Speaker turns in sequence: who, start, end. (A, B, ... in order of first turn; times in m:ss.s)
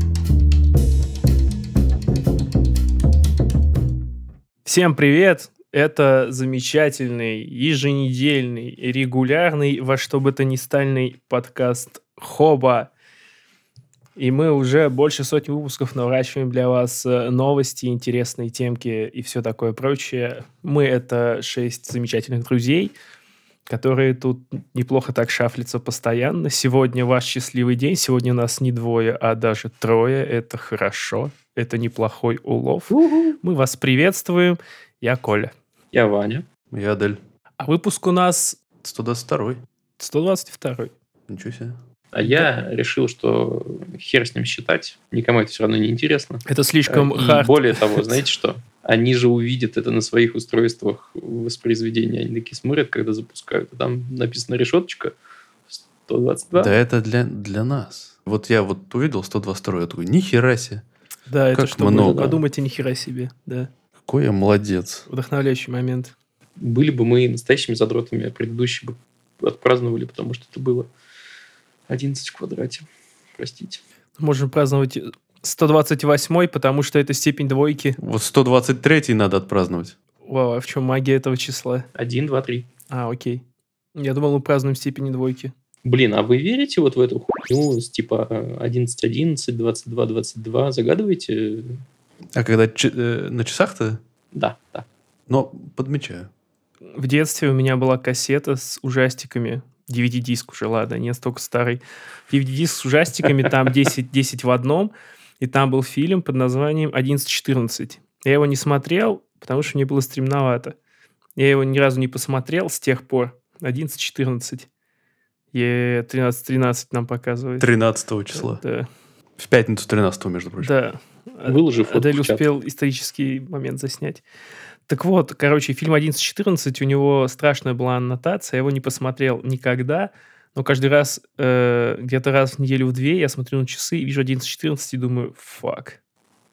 0:04.6-0:12.9 A
0:14.2-0:22.9 A
0:23.7-0:35.5 A
0:32.9-0:33.4 B
0:35.9-0:36.4 B
0:36.7-0:37.2 C
0:37.6-0:38.6 A
0:38.8-0:39.6 C
0:40.0-0:40.9 A
0:41.3-0:41.8 C
0:42.1-0:55.2 B
0:46.5-0:48.2 A
0:55.7-0:56.7 B
0:56.6-1:00.8 C
1:01.3-1:03.7 A
1:01.5-1:02.4 C
1:04.1-1:05.1 C
1:05.1-1:06.1 A
1:06.6-1:10.9 B
1:11.9-1:13.8 B
1:14.2-1:18.0 A
1:18.0-1:20.0 C
1:20.2-1:21.9 A
1:22.0-1:22.7 B
1:22.9-1:23.4 A
1:24.0-1:25.5 A
1:25.8-1:31.8 B
1:32.4-1:34.0 C
1:34.3-1:34.9 B
1:35.3-1:36.3 C
1:36.9-1:50.8 A
1:51.4-1:54.7 A
1:55.5-1:57.7 A
1:57.6-1:58.6 C
1:58.3-1:58.9 A
1:59.4-2:00.7 C
2:00.6-2:04.2 A
2:01.4-2:02.4 B
2:04.9-2:16.0 A